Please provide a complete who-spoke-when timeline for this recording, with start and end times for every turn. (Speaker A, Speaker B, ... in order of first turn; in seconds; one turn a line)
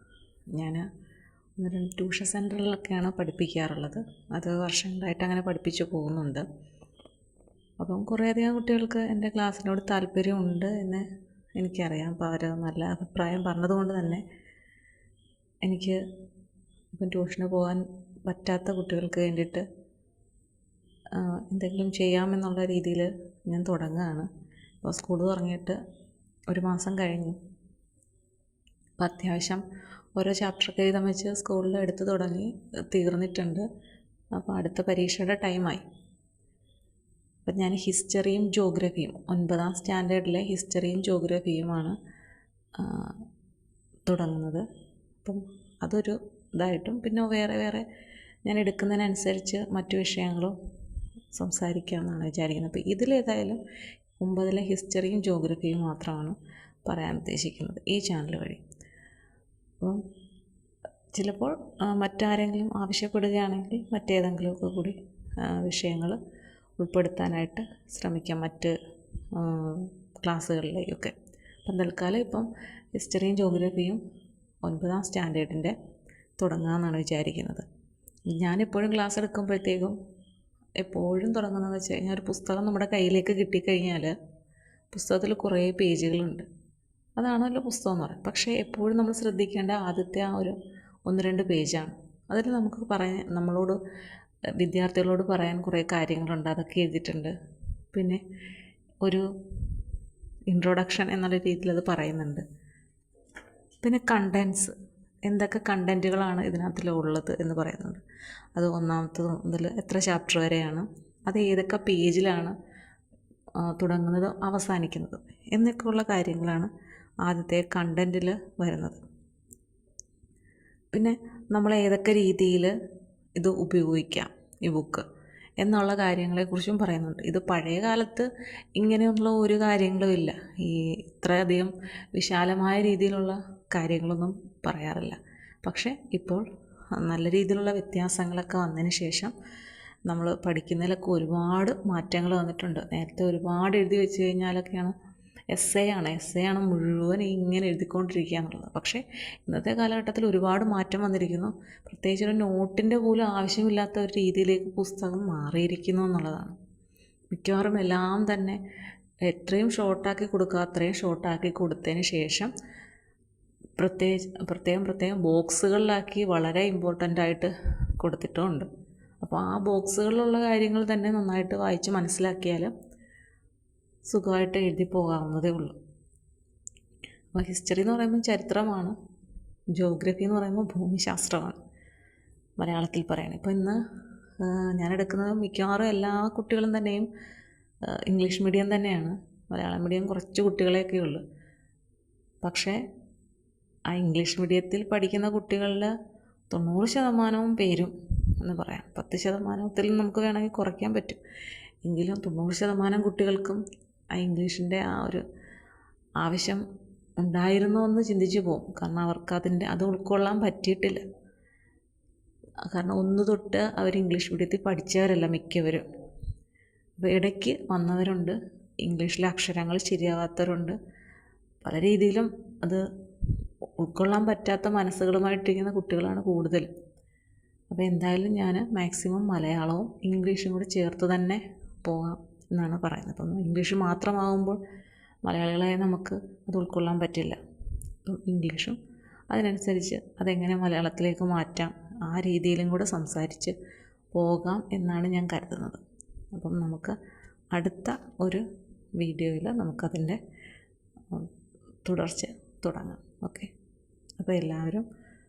Speaker A: 0.5-0.8
Speaker A: 1.6-6.4
Speaker A: 7.8-11.0
Speaker A: 11.6-14.2
Speaker A: 15.6-16.0
Speaker A: 17.0-19.6
Speaker A: 21.1-24.3
Speaker A: 24.8-25.8
Speaker A: 26.5-27.4
Speaker A: 29.0-29.6
Speaker A: 30.2-33.6
Speaker A: 34.4-35.8
Speaker A: 37.5-41.9
Speaker A: 42.8-43.1
Speaker A: 44.1-44.6
Speaker A: 45.2-47.8
Speaker A: 48.5-50.5
Speaker A: 51.3-53.6
Speaker A: 54.2-58.6
Speaker A: 61.1-66.2
Speaker A: 66.8-68.7
Speaker A: 69.3-71.1
Speaker A: 71.6-74.0
Speaker A: 74.7-75.7
Speaker A: 76.4-77.7
Speaker A: 78.3-80.0
Speaker A: 80.8-84.1
Speaker A: 84.9-86.5
Speaker A: 87.2-90.5
Speaker A: 91.1-93.8
Speaker A: 94.6-97.3
Speaker A: 97.9-98.2
Speaker A: 100.5-102.4
Speaker A: 103.8-104.7
Speaker A: 105.3-108.0
Speaker A: 108.5-112.5
Speaker A: 113.6-116.7
Speaker A: 117.2-119.0
Speaker A: 120.9-122.7
Speaker A: 123.3-125.0
Speaker A: 125.6-136.4
Speaker A: 136.9-139.3
Speaker A: 140.1-144.9
Speaker A: 145.5-156.6
Speaker A: 157.3-158.6
Speaker A: 159.3-162.5
Speaker A: 163.8-168.7
Speaker A: 169.2-172.7
Speaker A: 174.1-175.8
Speaker A: 177.3-178.9
Speaker A: 179.7-181.6
Speaker A: 182.6-183.8
Speaker A: 184.4-187.1
Speaker A: 188.1-191.2
Speaker A: 192.4-192.8
Speaker A: 193.9-195.9
Speaker A: 196.5-201.2
Speaker A: 201.8-203.6
Speaker A: 204.1-205.2
Speaker A: 206.2-206.6
Speaker A: 207.2-211.0
Speaker A: 212.7-215.8
Speaker A: 217.0-220.8
Speaker A: 221.6-222.8
Speaker A: 223.8-226.7
Speaker A: 227.7-234.6
Speaker A: 235.2-237.4
Speaker A: 238.0-238.8
Speaker A: 239.3-243.5
Speaker A: 244.1-245.8
Speaker A: 246.3-247.0
Speaker A: 247.5-248.4
Speaker A: 249.0-250.2
Speaker A: 251.8-253.5
Speaker A: 254.2-254.8